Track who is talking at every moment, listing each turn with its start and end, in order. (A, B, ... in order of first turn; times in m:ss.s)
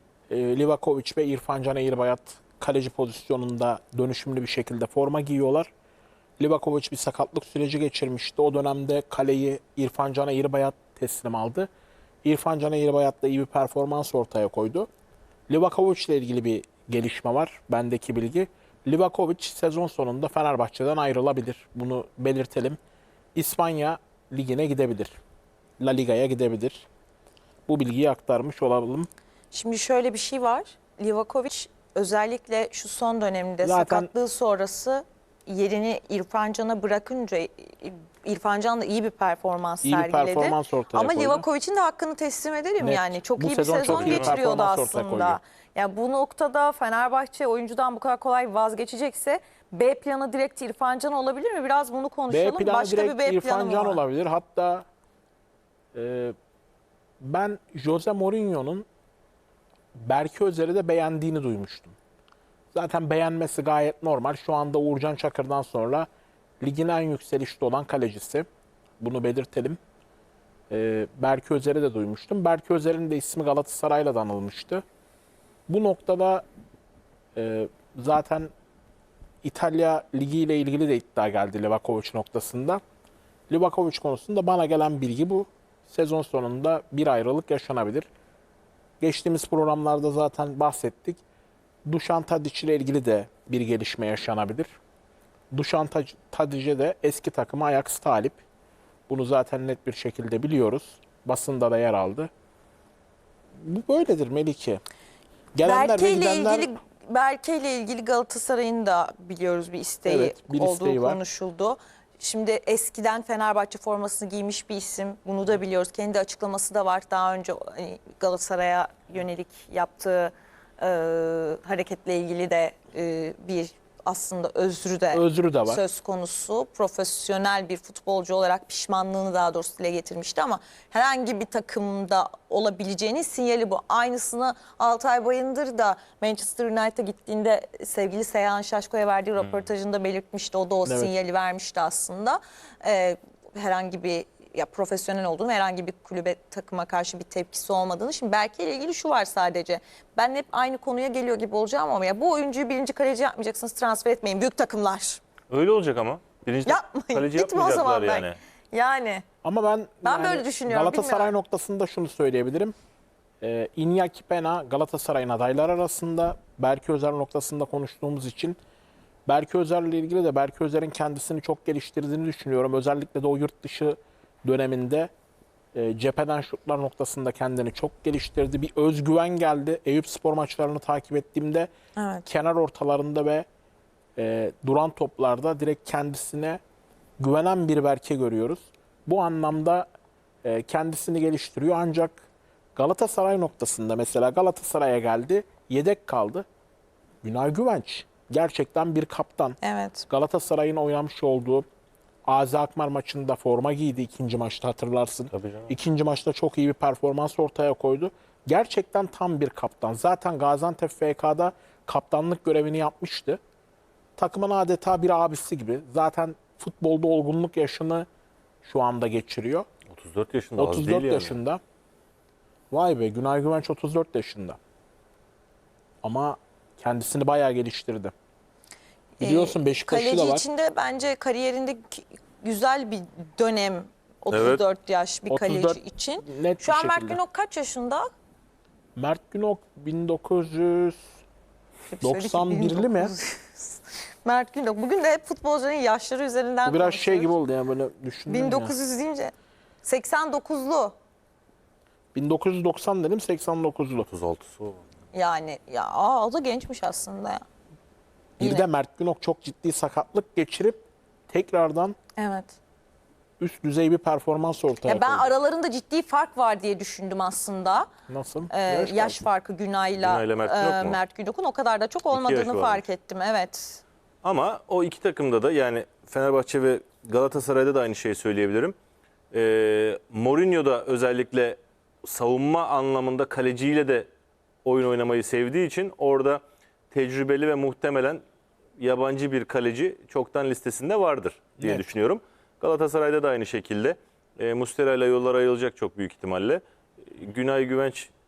0:00.3-0:05.7 A
0:06.4-0:11.7 A
0:12.2-0:14.9 A
0:15.5-0:22.8 A
0:23.4-0:25.2 A
0:25.8-0:26.9 A
0:27.7-0:29.1 A
0:29.5-0:54.0 B
0:33.6-0:34.1 A
0:39.8-0:41.5 A
0:42.8-0:45.4 A
0:43.8-0:44.4 C
0:52.3-0:54.9 A
0:55.9-0:56.4 A
0:57.2-0:58.9 A
1:00.0-1:02.0 A
1:02.7-1:06.1 A
1:06.6-1:08.5 A
1:09.0-1:09.8 A
1:10.7-1:14.8 A
1:15.7-1:16.4 A
1:17.4-1:18.5 A
1:19.4-1:22.8 A
1:23.5-1:28.1 A
1:29.0-1:31.2 A
1:31.9-1:34.7 A
1:35.5-1:38.4 A
1:39.1-1:42.3 A
1:43.6-1:44.8 A
1:45.6-1:46.7 A
1:45.6-2:35.2 B
1:50.1-1:51.2 A
2:05.1-2:05.8 A
2:19.4-2:19.7 C
2:20.8-2:21.1 A
2:35.5-2:38.4 C
2:36.7-2:39.2 B
2:39.4-2:42.7 A
2:40.0-2:41.3 B
2:43.4-2:48.6 A
2:49.3-2:55.1 A
2:55.7-3:01.7 A
3:02.0-3:02.3 B
3:02.3-3:03.5 A
3:04.2-3:06.6 A
3:07.2-3:09.9 A
3:10.4-3:12.2 A
3:12.8-3:16.5 A
3:17.2-3:19.6 A
3:19.6-3:20.1 B
3:20.1-3:21.7 A
3:22.3-3:33.4 A
3:25.3-3:25.7 C
3:34.2-3:38.1 A
3:38.6-3:39.7 A
3:39.9-3:41.4 C
3:40.6-3:41.6 A
3:42.7-3:44.6 A
3:46.0-3:48.1 A
3:49.2-3:58.1 B
3:49.2-3:50.4 A
3:54.3-3:54.6 C
3:55.3-3:57.2 A
3:59.0-4:01.1 A
4:01.9-4:07.3 B
4:02.0-4:03.1 A
4:06.6-4:08.8 A
4:08.3-4:11.0 B
4:12.1-4:14.1 A
4:14.1-4:14.8 C
4:15.1-4:17.4 B
4:18.4-4:18.7 B
4:18.4-4:22.0 A
4:22.2-4:22.6 B
4:23.4-4:25.3 A
4:24.8-4:27.9 B
4:28.1-4:29.3 A
4:28.5-4:33.8 B
4:30.0-4:31.0 C
4:32.1-4:32.8 C
4:34.2-4:38.8 C
4:39.3-4:44.1 C
4:44.6-4:48.2 C
4:48.8-4:58.1 C